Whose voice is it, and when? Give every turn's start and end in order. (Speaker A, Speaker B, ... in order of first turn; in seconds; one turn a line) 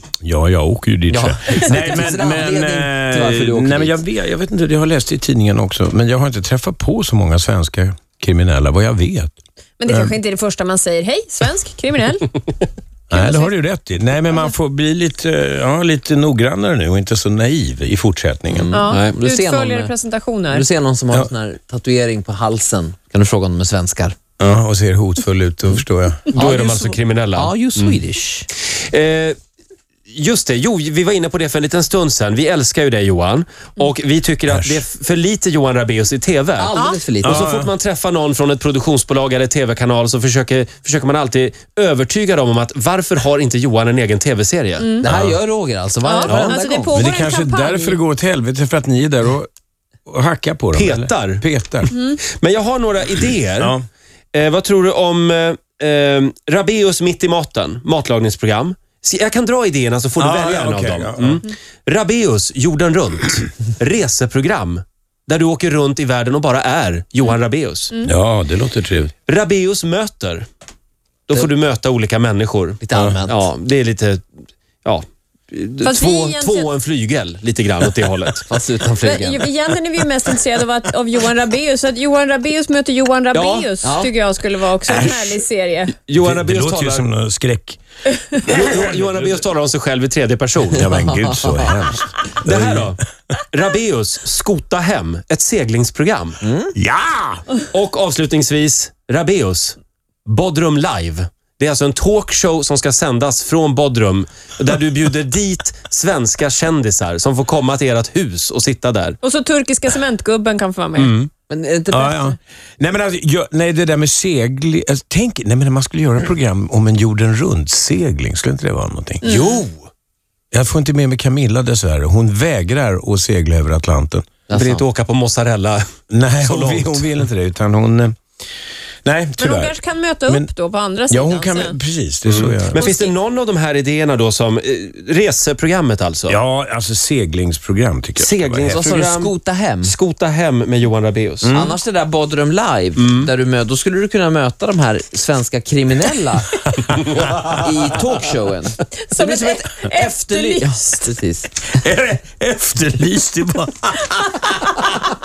Speaker A: 0.2-9.3
Speaker B: 1.1-4.0
Speaker C: 9.8-12.3
Speaker A: 9.9-10.2
Speaker A: 13.1-18.8
Speaker C: 13.1-13.5
Speaker B: 18.5-19.9
Speaker C: 18.7-20.7
Speaker B: 20.5-24.1
Speaker A: 24.4-26.2
Speaker D: 26.3-27.9
Speaker B: 26.3-28.5
Speaker D: 28.6-29.4
Speaker D: 30.1-36.7
Speaker A: 34.5-34.8
Speaker B: 36.6-37.5
Speaker C: 36.8-37.0
Speaker A: 37.2-37.7
Speaker D: 37.3-44.9
Speaker C: 44.8-45.0
Speaker B: 45.0-47.0
Speaker A: 45.0-45.4
Speaker C: 46.0-48.0
Speaker A: 46.3-49.5
Speaker A: 50.0-51.9
Speaker D: 50.7-53.7
Speaker C: 51.9-52.2
Speaker A: 53.6-53.9
Speaker D: 54.3-67.9
Speaker A: 60.2-61.4
Speaker A: 68.0-69.1
Speaker D: 69.3-70.5
Speaker D: 71.3-74.2
Speaker B: 72.8-73.5
Speaker D: 74.8-78.5
Speaker C: 75.8-76.7
Speaker B: 78.5-79.4
Speaker C: 79.0-86.0
Speaker D: 83.3-83.7
Speaker B: 83.8-84.1
Speaker A: 84.8-85.4
Speaker D: 86.1-87.0
Speaker A: 86.2-87.8
Speaker A: 88.3-89.3
Speaker D: 88.5-90.9
Speaker A: 90.7-92.9
Speaker B: 91.0-91.7
Speaker D: 92.4-93.0
Speaker D: 93.5-96.4
Speaker B: 96.4-96.7
Speaker A: 96.8-97.4
Speaker D: 97.7-109.2
Speaker C: 109.2-111.1
Speaker D: 111.0-111.3
Speaker B: 111.5-112.4
Speaker A: 111.9-119.2
Speaker C: 119.2-119.6
Speaker B: 119.2-119.7
Speaker A: 120.5-124.3
Speaker B: 124.5-124.8
Speaker D: 124.5-125.8
Speaker A: 126.1-128.1
Speaker D: 126.4-127.2
Speaker A: 129.0-130.5
Speaker C: 129.4-131.8
Speaker A: 131.1-132.9
Speaker D: 132.2-136.4
Speaker C: 132.8-133.1
Speaker A: 136.3-138.8
Speaker D: 138.2-141.6
Speaker B: 138.6-139.9
Speaker A: 141.4-141.8
Speaker B: 141.5-146.6
Speaker D: 142.9-143.3
Speaker D: 146.8-147.3
Speaker B: 147.3-151.7
Speaker C: 149.0-151.1
Speaker A: 151.8-154.6